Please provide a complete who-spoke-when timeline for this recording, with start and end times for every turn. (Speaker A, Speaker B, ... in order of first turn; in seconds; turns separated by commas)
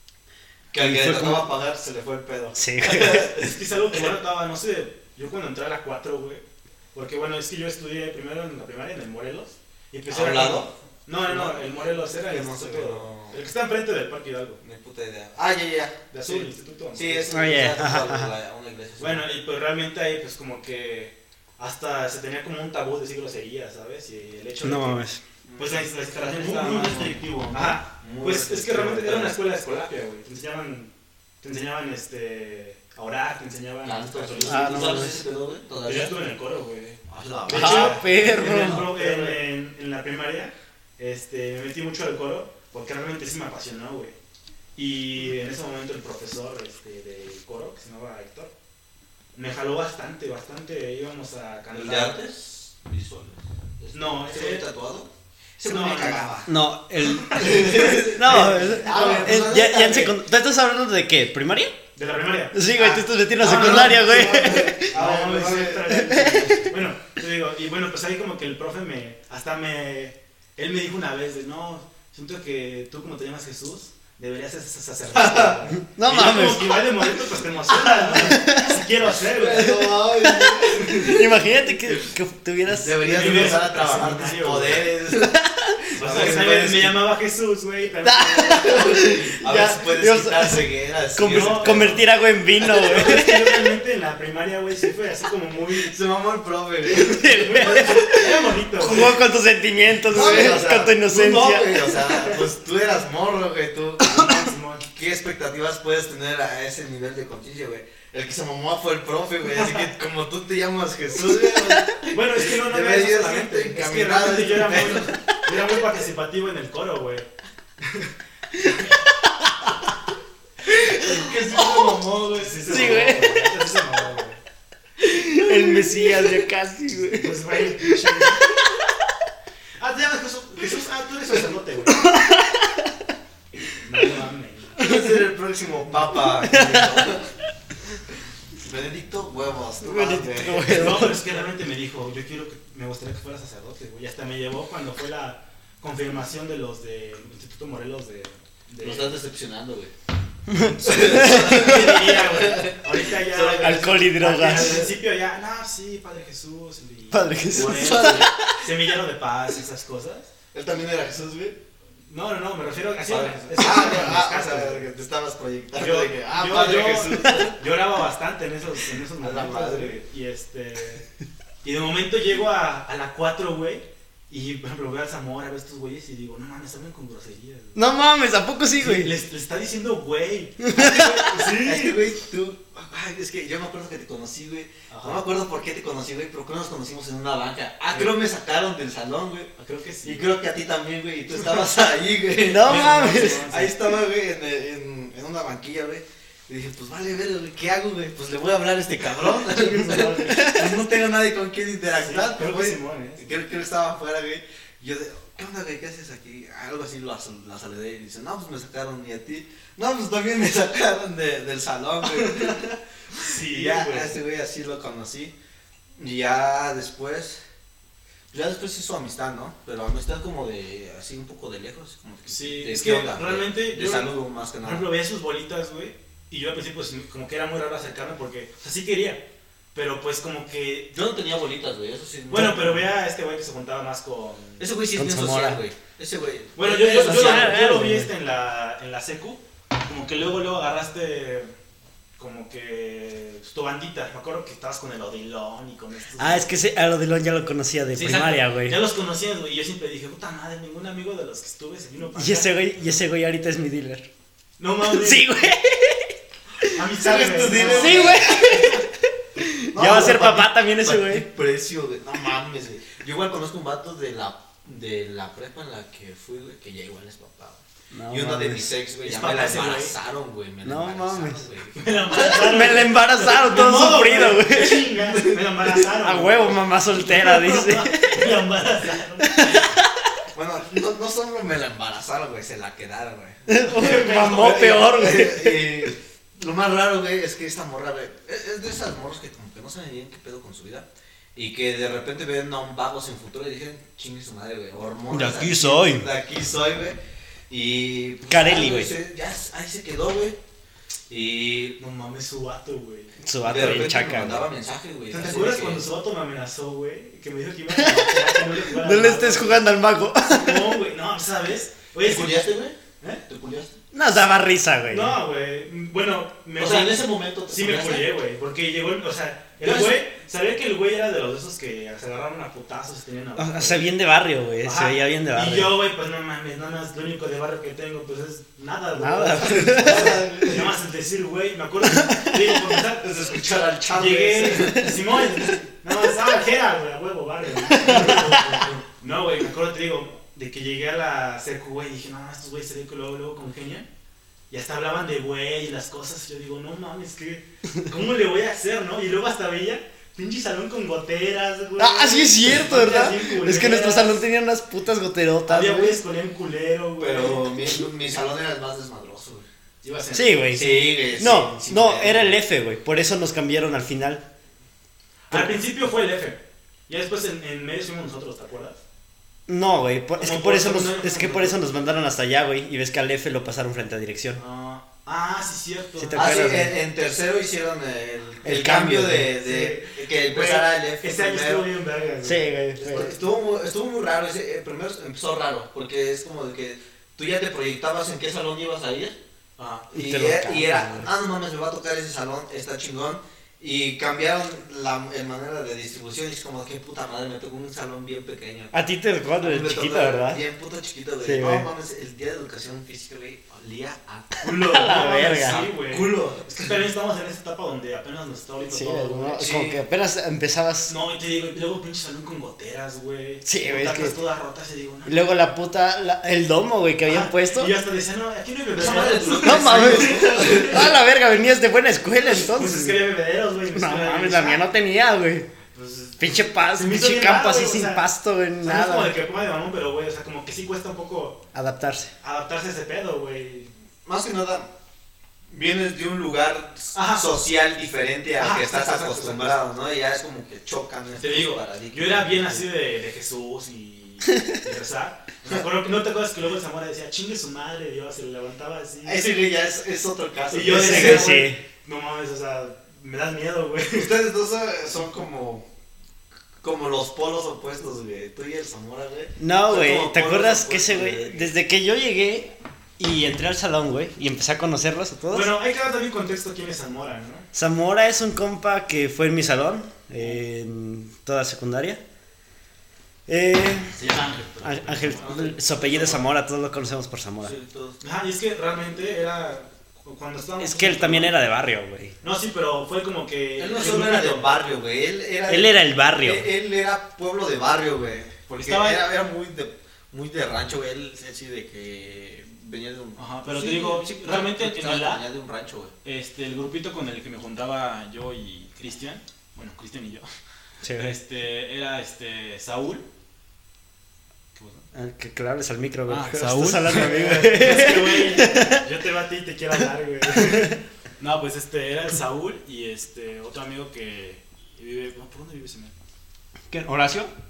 Speaker A: 0.7-4.0, Speaker B: 0.8-1.5, Speaker B: 2.5-3.3, Speaker C: 3.0-14.6, Speaker A: 10.1-13.4, Speaker A: 14.6-19.2, Speaker C: 16.1-17.3, Speaker B: 17.3-18.3, Speaker C: 19.0-25.1, Speaker B: 24.6-25.2, Speaker A: 25.4-29.4, Speaker C: 25.6-35.1, Speaker A: 33.8-36.2, Speaker B: 34.4-35.2, Speaker C: 35.8-44.1, Speaker A: 37.1-39.4, Speaker B: 37.5-38.9, Speaker C: 44.8-48.5, Speaker C: 49.3-52.2, Speaker A: 51.7-56.5, Speaker C: 53.9-54.7, Speaker C: 55.6-56.3, Speaker B: 56.5-61.8, Speaker C: 57.0-59.3, Speaker A: 57.4-60.2, Speaker C: 62.0-62.6, Speaker B: 62.5-65.0, Speaker A: 62.8-65.9, Speaker C: 63.4-79.8, Speaker B: 65.8-66.7, Speaker A: 75.1-75.6, Speaker B: 75.8-77.0, Speaker B: 77.9-78.8, Speaker A: 79.1-81.4, Speaker B: 79.5-83.5, Speaker A: 82.7-85.4, Speaker C: 83.0-84.9, Speaker B: 85.1-85.8, Speaker A: 85.9-87.0, Speaker C: 85.9-88.9, Speaker B: 88.0-90.6, Speaker A: 88.4-92.0, Speaker B: 91.2-93.7, Speaker C: 91.3-92.0, Speaker C: 92.6-95.9, Speaker A: 92.7-93.0, Speaker A: 95.8-98.0, Speaker B: 96.9-102.3, Speaker C: 97.2-99.2, Speaker A: 100.1-115.2, Speaker C: 100.1-100.9, Speaker B: 104.1-104.4, Speaker C: 104.1-104.8, Speaker C: 109.5-109.9, Speaker B: 111.3-111.8, Speaker C: 112.0-117.3, Speaker B: 115.1-115.4, Speaker C: 117.8-118.9, Speaker A: 120.7-123.1, Speaker B: 120.8-121.9, Speaker C: 122.3-124.4, Speaker B: 122.7-123.5, Speaker B: 125.0-129.1, Speaker C: 127.0-128.5, Speaker C: 129.8-132.1, Speaker B: 131.9-133.1, Speaker C: 133.8-134.8, Speaker B: 134.8-135.1, Speaker A: 134.8-137.3, Speaker B: 136.4-137.1, Speaker A: 138.6-141.2, Speaker B: 139.8-141.2, Speaker C: 140.6-149.2, Speaker A: 148.8-149.9, Speaker B: 150.5-152.1, Speaker C: 150.6-160.3, Speaker A: 150.8-153.9, Speaker B: 153.6-154.9, Speaker A: 154.4-154.8, Speaker B: 157.1-158.6, Speaker A: 157.5-158.4, Speaker A: 160.5-161.6, Speaker C: 162.1-164.9, Speaker A: 163.1-167.6, Speaker C: 165.7-171.0, Speaker A: 169.2-170.0, Speaker C: 171.6-177.8, Speaker B: 177.7-179.1, Speaker C: 178.8-182.0, Speaker B: 180.6-181.4, Speaker A: 181.0-189.5, Speaker C: 184.9-185.2, Speaker C: 189.6-190.3, Speaker A: 190.0-215.3, Speaker B: 192.4-193.5, Speaker C: 192.6-193.8, Speaker C: 199.5-200.6, Speaker B: 200.3-200.6, Speaker C: 201.9-203.3, Speaker C: 212.1-212.6, Speaker C: 213.1-214.2, Speaker A: 216.0-217.4, Speaker A: 218.3-224.9, Speaker C: 222.3-229.2, Speaker C: 229.7-231.0, Speaker A: 230.9-232.8, Speaker C: 232.3-234.7, Speaker A: 234.6-237.6, Speaker B: 234.9-235.6, Speaker C: 236.6-241.5, Speaker B: 236.7-238.1, Speaker C: 242.2-246.5, Speaker B: 246.2-248.8, Speaker C: 247.9-252.7, Speaker B: 252.2-254.1, Speaker C: 254.6-255.3, Speaker B: 254.8-256.7, Speaker C: 256.7-258.8, Speaker A: 257.0-258.6, Speaker B: 257.6-261.3, Speaker A: 259.7-272.0, Speaker B: 267.9-268.7, Speaker C: 269.0-269.9, Speaker B: 270.6-271.5, Speaker C: 271.8-279.7, Speaker B: 272.1-278.4, Speaker B: 279.2-280.1, Speaker A: 280.3-297.0, Speaker B: 283.5-285.9, Speaker C: 283.6-284.9, Speaker B: 295.1-296.1, Speaker A: 297.5-300.4, Speaker B: 298.3-298.9, Speaker A: 301.1-301.8, Speaker C: 301.8-303.8, Speaker B: 303.2-304.4, Speaker A: 303.4-305.8, Speaker C: 305.1-309.6, Speaker B: 307.7-310.8, Speaker C: 310.2-312.5, Speaker A: 312.0-313.7, Speaker B: 313.9-315.2, Speaker C: 314.9-323.9, Speaker A: 316.6-318.1, Speaker A: 319.6-320.0, Speaker B: 323.4-325.8, Speaker C: 324.6-343.9, Speaker B: 329.0-330.2, Speaker A: 329.4-330.7, Speaker B: 331.9-332.4, Speaker A: 333.0-335.2, Speaker B: 337.7-338.6, Speaker A: 337.7-338.8, Speaker C: 344.5-354.2, Speaker B: 351.8-356.0, Speaker C: 355.5-357.5, Speaker A: 357.0-359.4, Speaker C: 359.8-360.6, Speaker B: 360.1-364.2, Speaker A: 360.5-362.3, Speaker C: 365.3-368.8, Speaker B: 365.3-365.6, Speaker B: 369.5-374.4, Speaker C: 370.2-371.6, Speaker C: 374.4-376.6, Speaker B: 376.0-376.7, Speaker A: 376.1-381.7, Speaker B: 378.4-379.3, Speaker C: 379.4-383.0, Speaker B: 382.2-383.1, Speaker A: 382.8-389.2, Speaker C: 389.6-389.9, Speaker A: 389.9-398.7, Speaker B: 389.9-391.1, Speaker B: 398.7-400.4, Speaker A: 399.4-406.7, Speaker B: 401.2-401.7, Speaker C: 404.4-409.4, Speaker B: 404.5-405.6, Speaker B: 408.7-410.9, Speaker A: 409.4-409.8, Speaker C: 410.9-415.2, Speaker B: 413.4-414.2, Speaker B: 415.1-417.7, Speaker C: 417.0-420.9, Speaker A: 418.7-420.9, Speaker B: 419.4-423.1, Speaker C: 422.2-424.6, Speaker B: 423.7-425.5, Speaker C: 425.7-428.0, Speaker B: 426.2-429.1, Speaker C: 428.6-431.4, Speaker B: 431.5-432.1, Speaker C: 432.2-433.7, Speaker A: 434.0-434.7, Speaker A: 435.5-442.6, Speaker C: 436.9-437.3, Speaker C: 438.4-439.6, Speaker C: 441.2-449.3, Speaker A: 449.0-451.4, Speaker C: 450.5-454.1, Speaker B: 450.7-451.6, Speaker A: 453.9-455.6, Speaker A: 456.6-461.5, Speaker B: 459.4-465.5, Speaker C: 465.3-467.4, Speaker B: 467.5-472.0, Speaker B: 473.3-474.0, Speaker C: 474.0-475.5, Speaker A: 474.0-476.2, Speaker B: 474.6-477.5, Speaker A: 477.4-478.0, Speaker C: 478.0-481.4, Speaker B: 480.6-482.1, Speaker C: 482.2-484.5, Speaker A: 483.6-495.9, Speaker B: 485.5-486.5, Speaker C: 488.6-489.0, Speaker C: 493.1-495.2, Speaker C: 496.0-500.3, Speaker B: 500.8-501.2, Speaker C: 500.9-503.0, Speaker C: 504.6-504.8, Speaker B: 504.9-508.9, Speaker C: 506.1-515.9, Speaker B: 510.3-510.8, Speaker B: 516.7-517.3